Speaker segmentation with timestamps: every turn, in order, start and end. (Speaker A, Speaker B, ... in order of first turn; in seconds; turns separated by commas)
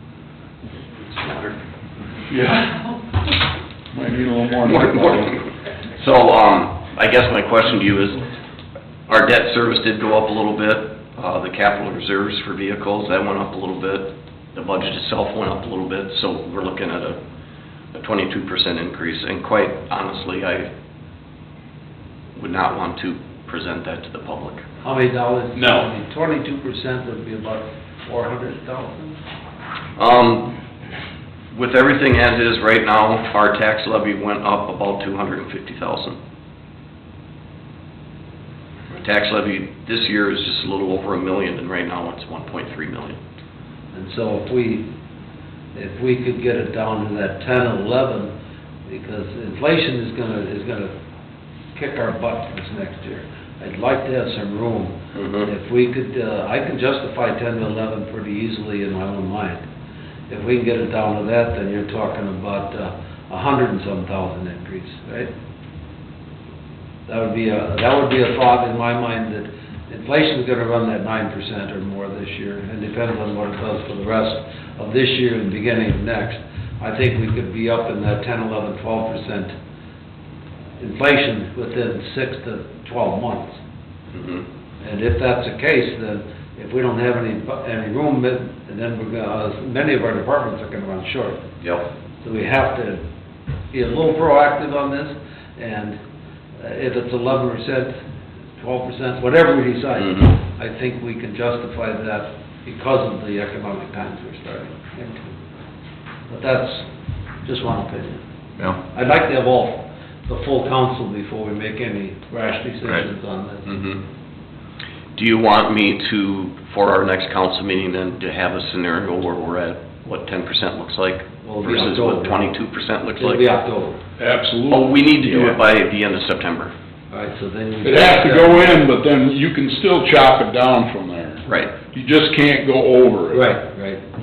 Speaker A: 0.9-1.6, Speaker B: 2.3-2.7, Speaker B: 3.9-5.4, Speaker A: 4.7-5.2, Speaker A: 5.9-8.3, Speaker A: 9.1-17.2, Speaker A: 17.9-20.7, Speaker A: 22.4-24.6, Speaker C: 24.8-29.2, Speaker A: 30.0-30.6, Speaker A: 31.5-36.2, Speaker A: 38.9-43.2, Speaker C: 43.9-44.9, Speaker C: 45.7-48.3, Speaker C: 48.9-50.9, Speaker C: 51.7-59.6, Speaker A: 55.1-55.5, Speaker C: 60.3-65.3, Speaker C: 67.0-79.5, Speaker C: 80.8-83.6, Speaker A: 84.1-84.4, Speaker C: 84.8-91.4, Speaker A: 91.6-91.8, Speaker C: 92.2-93.0, Speaker C: 93.7-96.0, Speaker C: 96.6-98.0, Speaker C: 98.5-105.3, Speaker A: 100.0-100.3, Speaker C: 106.3-106.9, Speaker C: 107.4-108.2, Speaker C: 108.8-113.8, Speaker A: 113.7-114.0, Speaker A: 115.1-123.4, Speaker C: 121.4-122.5, Speaker C: 123.2-124.0, Speaker B: 124.2-125.1, Speaker A: 124.7-126.7, Speaker C: 127.1-128.8, Speaker B: 127.8-133.5, Speaker A: 131.4-131.8, Speaker C: 133.3-134.0